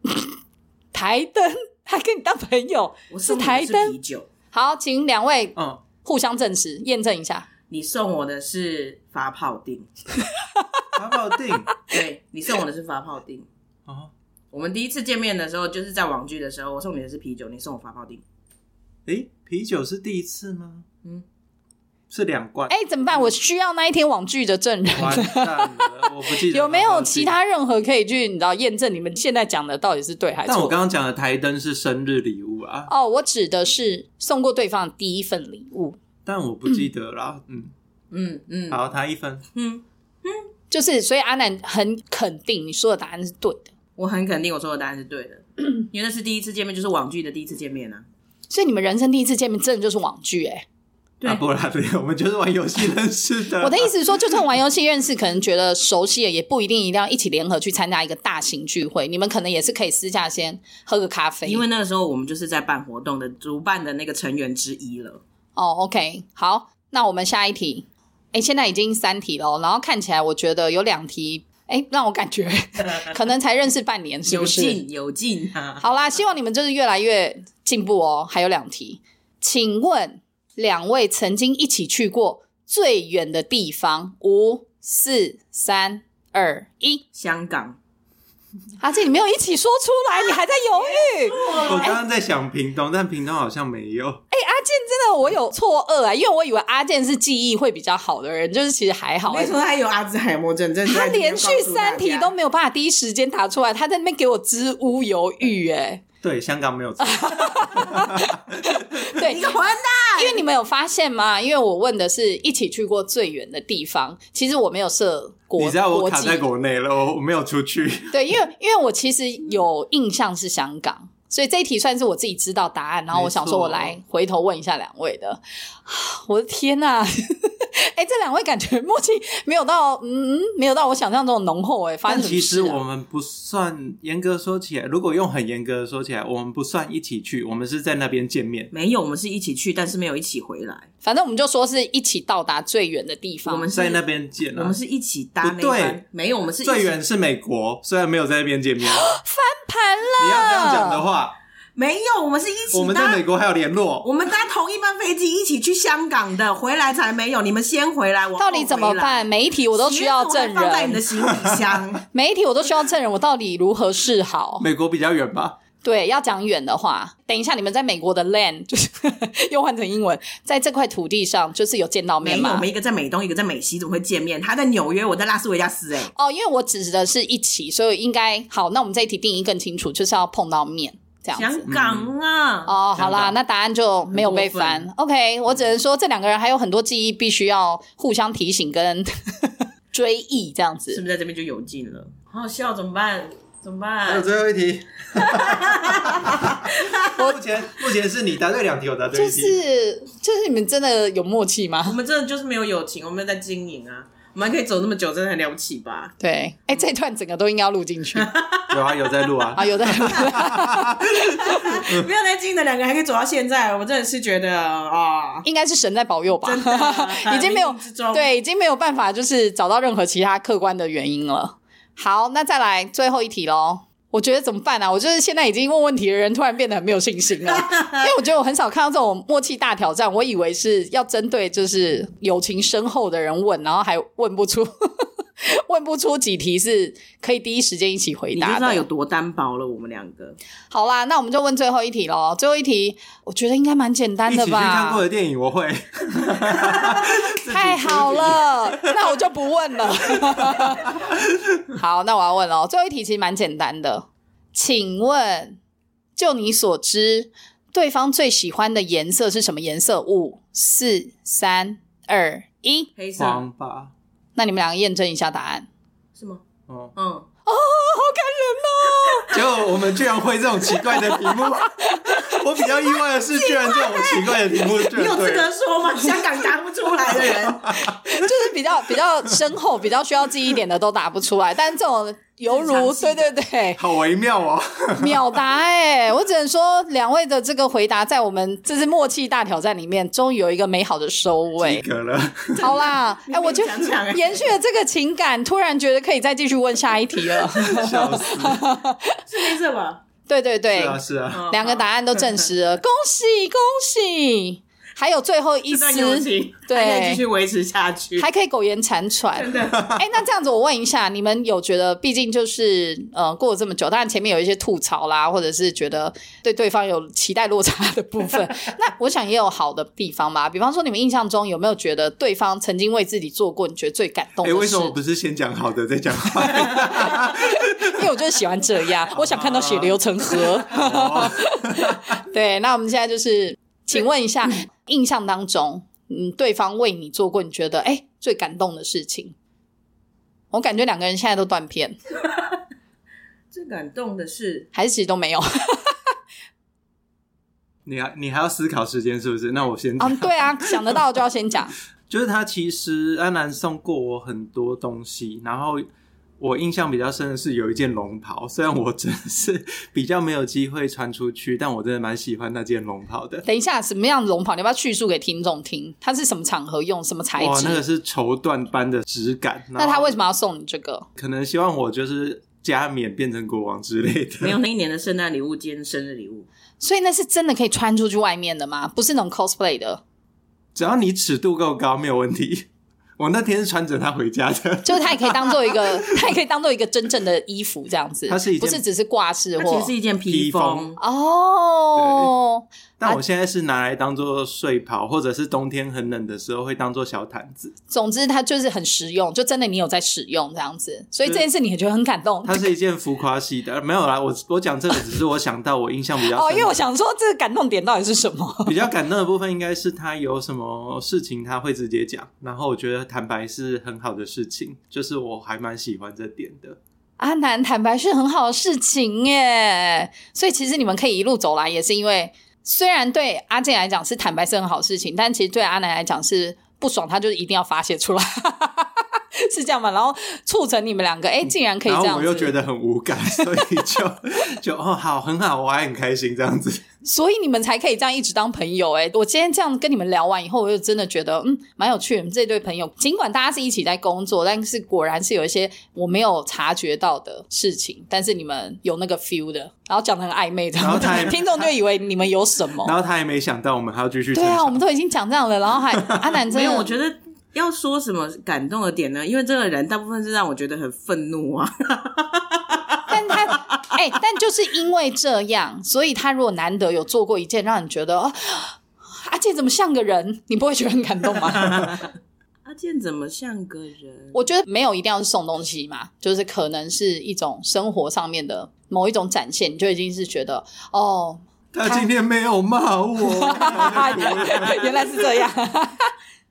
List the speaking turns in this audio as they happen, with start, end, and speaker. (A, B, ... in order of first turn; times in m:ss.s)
0:00.9-0:04.0 A
0:03.1-0:04.3 B
0:04.5-0:07.5 A
0:05.6-0:05.8 C
0:07.7-0:09.9 B
0:10.6-0:10.8 A
0:10.9-0:11.7 C
0:11.9-0:13.5 B
0:13.9-0:14.1 C
0:14.5-0:18.2 B
0:19.0-0:20.8 C
0:22.1-0:22.7 C
0:22.7-0:30.8 A
0:24.9-0:27.4 C
0:30.4-0:32.9 C
0:32.9-0:36.0 A
0:36.2-0:37.7 C
0:38.1-0:38.8 B
0:38.7-0:39.4 C
0:39.5-0:40.4 B
0:40.7-0:43.7 A
0:44.0-0:48.0 B
0:48.5-0:50.6 A
0:51.2-0:53.9 C
0:53.6-1:01.6 A
1:01.4-1:05.2 B
1:05.6-1:14.8 A
1:14.3-1:15.8 B
1:15.8-1:27.0 A
1:27.1-1:27.8 B
1:28.8-1:32.0 A
1:30.7-1:31.9 B
1:31.6-1:34.2 C
1:34.3-1:39.5 A
1:39.3-1:42.3 B
1:40.9-1:46.0 A
1:46.2-1:48.8 C
1:47.0-1:49.5 A
1:49.1-1:50.4 B
1:50.2-1:56.4 A
1:55.6-1:58.1 C
1:58.1-2:12.8 A
2:03.1-2:04.0 C
2:12.1-2:18.7 C
2:18.7-2:20.9 B
2:21.0-2:23.7 A
2:23.4-2:27.0 B
2:23.7-2:24.8 C
2:25.4-2:26.0 C
2:26.6-2:29.1 C
2:28.8-2:31.0 A
2:30.2-2:31.3 C
2:31.8-2:33.2 B
2:32.7-2:34.1 C
2:34.0-2:42.0 B
2:38.4-2:41.1 A
2:42.1-2:44.6 A
2:44.6-2:45.6 C
2:45.8-2:52.6 A
2:52.2-2:56.1 B
2:56.1-3:01.6 A
3:01.3-3:02.7 B
3:01.7-3:02.1 C
3:02.7-3:11.0 A
3:02.9-3:03.4 C
3:04.1-3:04.8 B
3:10.9-3:14.3 B
3:14.1-3:19.6 C
3:15.2-3:17.2 B
3:17.2-3:17.4 A
3:19.1-3:22.0 A
3:21.8-3:26.1 B
3:26.2-3:28.3 A
3:28.2-3:29.0 B
3:28.7-3:32.0 C
3:29.6-3:31.1 A
3:30.0-3:30.6 B
3:31.1-3:35.4 B
3:35.4-3:58.8 A
3:36.4-3:38.3 B
3:47.6-3:48.1 B
3:58.3-4:00.4 B
4:00.7-4:05.0 A
4:04.3-4:09.1 C
4:07.5-4:11.0 A
4:10.3-4:11.2 C
4:11.7-4:15.6 A
4:16.2-4:22.9 A
4:23.0-4:23.4 B
4:23.2-4:23.9 C
4:24.4-4:25.7 A
4:26.2-4:26.4 B
4:26.7-4:26.9 C
4:26.9-4:27.2 B
4:27.4-4:29.4 A
4:29.3-4:35.5 C
4:30.8-4:32.9 A
4:33.4-4:34.1 A
4:33.7-4:34.0 B
4:34.8-4:37.8 B
4:37.6-4:38.3 C
4:37.9-4:43.8 A
4:42.4-4:43.3 B
4:43.8-4:45.4 C
4:45.0-4:51.8 A
4:51.6-4:52.8 C
4:52.6-4:54.5 B
4:52.6-4:59.2 A
4:57.4-4:58.6 C
4:59.2-5:00.0 B
5:00.3-5:07.2 A
5:00.7-5:01.5 C
5:01.3-5:02.4 B
5:05.7-5:08.3 B
5:08.2-5:24.9 A
5:09.3-5:10.0 B
5:24.4-5:28.1 C
5:26.6-5:39.3 A
5:29.1-5:32.2 C
5:40.5-5:42.0 A
5:43.5-5:44.7 B
5:44.7-5:46.0 A
5:47.8-5:51.0 C
5:50.0-5:51.7 A
5:52.1-5:55.8 C
5:56.4-6:03.4 C
6:03.4-6:07.8 A
6:07.4-6:10.2 C
6:09.8-6:11.0 A
6:11.2-6:14.6 C
6:14.4-6:16.5 B
6:16.8-6:20.0 A
6:20.7-6:22.7 C
6:23.2-6:26.3 C
6:24.8-6:29.9 A
6:28.3-6:28.8 C
6:29.6-6:31.0 B
6:30.3-6:30.9 C
6:31.0-6:33.2 A
6:32.0-6:32.3 C
6:33.0-6:37.7 C
6:37.9-6:42.7 A
6:42.4-6:46.8 C
6:46.3-6:48.8 A
6:48.6-6:56.8 C
6:57.2-7:12.5 A
7:11.8-7:16.8 C
7:13.4-7:13.7 A
7:17.0-7:32.9 A
7:30.8-7:31.6 C
7:32.8-7:34.8 C
7:34.3-7:36.9 A
7:35.9-7:36.3 C
7:36.5-7:43.8 B
7:43.1-7:52.0 A
7:51.7-7:52.0 B
7:52.6-7:54.4 B
7:54.3-8:02.1 A
8:01.7-8:05.2 C
8:03.2-8:06.1 A